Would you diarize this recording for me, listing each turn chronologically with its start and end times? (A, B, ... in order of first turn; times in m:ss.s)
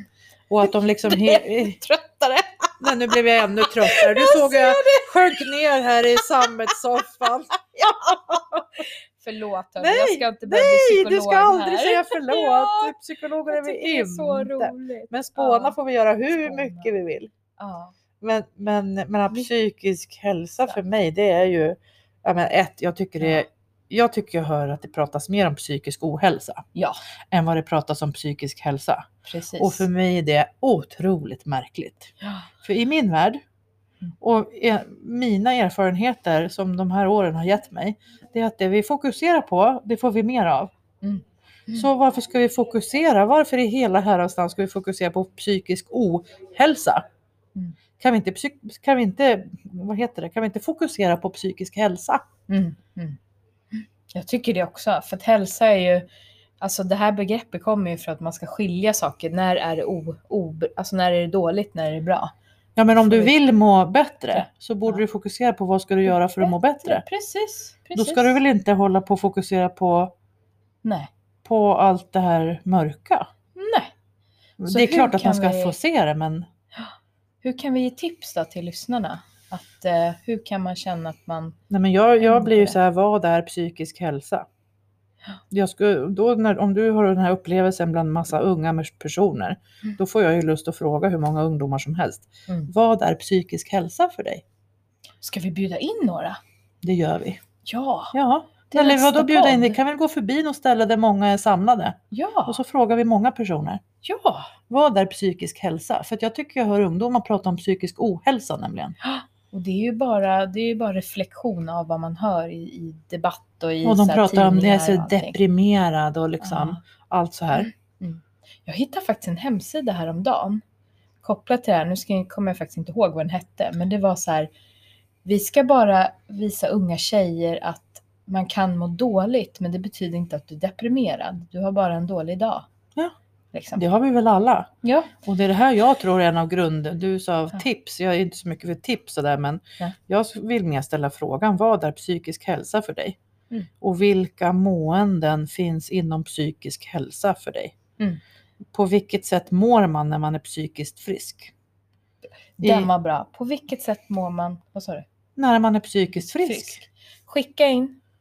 0:00.5-0:01.8 A
0:00.7-0:02.7 B
0:02.8-0:08.6 A
0:03.7-0:05.4 B
0:08.3-0:12.9 B
0:09.8-0:17.3 A
0:13.5-0:15.8 B
0:16.3-0:16.9 B
0:17.6-0:17.9 B
0:18.2-0:26.6 A
0:27.3-0:29.0 A
0:29.2-0:29.9 B
0:29.6-0:32.1 A
0:32.2-0:32.5 B
0:32.6-0:33.4 A
0:34.2-0:40.7 A
0:41.0-0:41.9 B
0:41.7-0:47.0 A
0:48.0-0:52.2 A
0:52.5-0:53.2 B
0:53.7-0:56.1 B
0:56.6-1:02.3 B
1:02.8-1:07.0 A
1:03.1-1:03.4 B
1:04.3-1:05.0 B
1:06.1-1:08.4 B
1:08.0-1:10.1 A
1:10.8-1:11.1 B
1:11.4-1:13.3 A
1:13.6-1:13.9 B
1:14.6-1:16.5 A
1:14.7-1:15.8 B
1:17.4-1:21.6 B
1:21.7-1:24.5 A
1:22.2-1:22.8 B
1:25.5-1:34.4 A
1:35.2-1:36.4 B
1:36.8-1:37.4 A
1:37.6-1:38.1 B
1:38.1-1:43.8 A
1:38.7-1:39.8 B
1:42.1-1:42.6 B
1:44.0-1:44.5 B
1:44.7-1:49.0 A
1:49.0-1:55.4 B
1:53.8-1:57.7 A
1:56.4-1:56.8 B
1:57.5-2:00.6 B
2:01.2-2:04.5 B
2:05.2-2:12.7 B
2:13.5-2:13.8 B
2:13.8-2:14.7 A
2:14.8-2:15.1 B
2:15.2-2:23.2 A
2:23.8-2:27.8 A
2:28.7-2:31.5 A
2:32.6-2:35.1 B
2:32.6-2:32.9 A
2:35.4-2:36.8 A
2:36.2-2:38.0 B